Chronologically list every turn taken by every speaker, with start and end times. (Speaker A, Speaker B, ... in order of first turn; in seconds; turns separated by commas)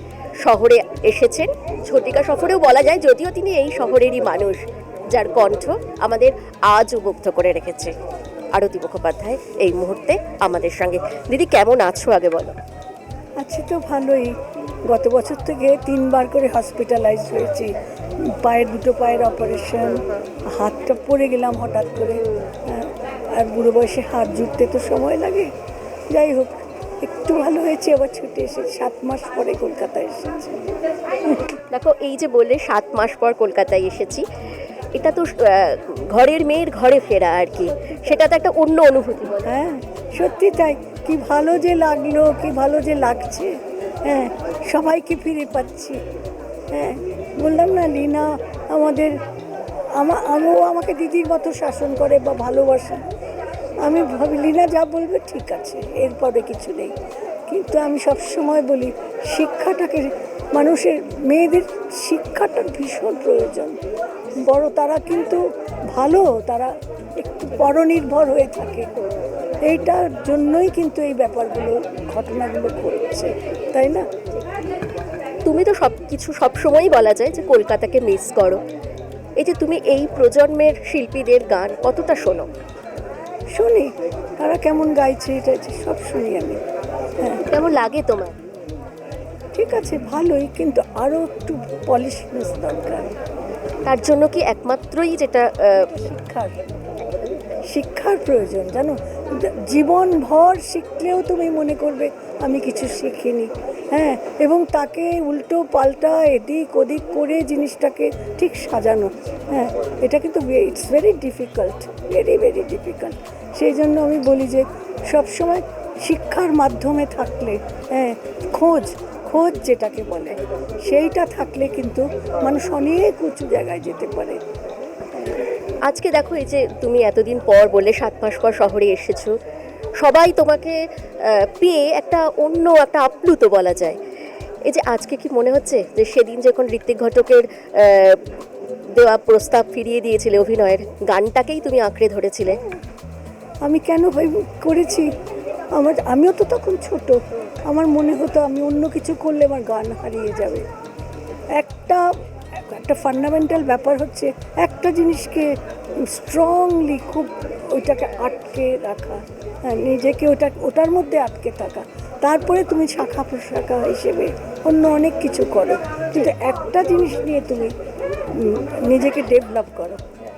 Speaker A: 0.4-7.9, Speaker A: 8.5-12.6, Speaker B: 13.4-14.4, Speaker B: 14.9-17.7, Speaker B: 18.4-25.5, Speaker B: 26.1-30.7, Speaker B: 31.2-31.6, Speaker A: 31.7-34.2, Speaker A: 35.0-39.5, Speaker B: 39.5-46.0, Speaker B: 46.7-49.2, Speaker B: 50.0-53.0, Speaker B: 53.8-57.0, Speaker B: 57.5-63.8, Speaker B: 64.4-68.9, Speaker B: 69.7-74.1, Speaker A: 75.5-78.6, Speaker A: 79.4-82.5, Speaker B: 83.6-86.6, Speaker A: 87.4-88.4, Speaker B: 89.5-93.2, Speaker A: 93.9-95.9, Speaker B: 95.9-96.6, Speaker B: 97.7-124.4, Speaker A: 125.9-129.4, Speaker A: 130.0-134.0, Speaker A: 134.7-138.3, Speaker A: 138.9-142.6, Speaker B: 143.7-145.1, Speaker B: 145.8-150.7, Speaker B: 151.6-167.7, Speaker B: 168.3-170.0